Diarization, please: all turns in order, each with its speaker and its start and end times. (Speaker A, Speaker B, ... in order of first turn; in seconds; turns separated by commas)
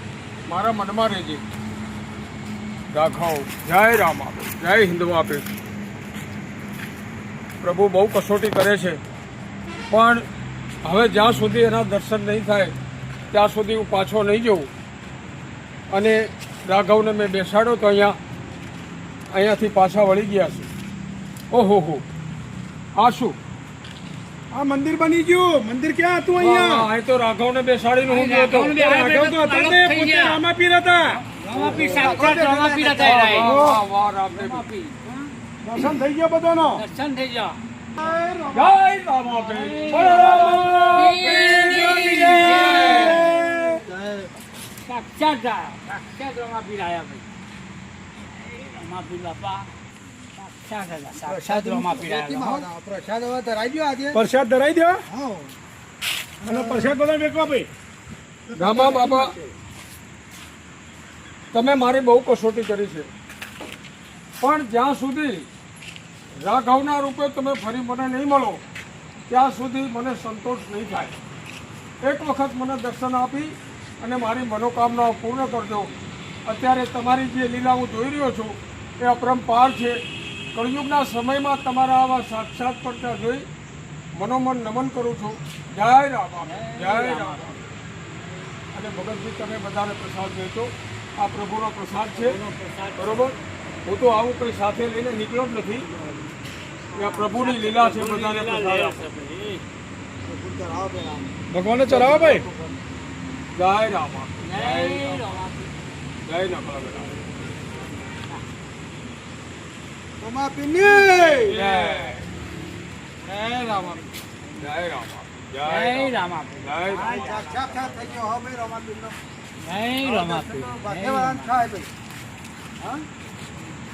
Speaker A: 0.5-1.4, Speaker A: 2.9-5.5, Speaker A: 7.6-9.0, Speaker A: 9.9-10.3, Speaker A: 10.8-12.8, Speaker A: 13.3-14.7, Speaker A: 15.9-18.2, Speaker A: 19.3-20.7, Speaker A: 21.5-22.1, Speaker A: 23.0-23.4, Speaker B: 24.5-26.9, Speaker A: 26.4-28.8, Speaker C: 28.1-30.4, Speaker B: 28.7-31.2, Speaker C: 31.3-33.6, Speaker D: 31.4-33.1, Speaker A: 31.6-32.1, Speaker A: 33.0-34.6, Speaker B: 33.0-33.8, Speaker C: 34.4-35.0, Speaker B: 35.6-36.8, Speaker C: 36.7-37.6, Speaker B: 38.0-38.8, Speaker A: 38.5-43.3, Speaker C: 39.3-43.3, Speaker B: 40.0-43.9, Speaker D: 43.9-44.3, Speaker C: 44.9-47.2, Speaker C: 48.5-49.7, Speaker C: 50.4-52.7, Speaker D: 51.2-54.2, Speaker B: 54.1-55.0, Speaker D: 55.1-55.5, Speaker D: 56.4-57.0, Speaker B: 56.5-57.7, Speaker D: 58.5-59.4, Speaker A: 58.5-59.4, Speaker A: 61.5-63.1, Speaker A: 64.4-65.5, Speaker A: 66.4-68.6, Speaker A: 69.3-71.2, Speaker A: 72.0-80.0, Speaker A: 80.5-83.5, Speaker A: 84.1-87.7, Speaker C: 86.5-87.5, Speaker A: 88.7-92.4, Speaker C: 92.1-93.3, Speaker A: 93.0-95.9, Speaker C: 96.9-99.6, Speaker A: 96.9-99.1, Speaker D: 100.2-101.3, Speaker A: 101.5-102.5, Speaker B: 101.8-102.2, Speaker A: 103.5-105.2, Speaker C: 104.4-105.7, Speaker A: 106.2-107.1, Speaker D: 110.2-111.8, Speaker A: 111.5-112.3, Speaker A: 114.6-118.1, Speaker C: 115.6-117.5, Speaker D: 117.0-119.2, Speaker C: 119.6-121.6, Speaker D: 120.0-121.9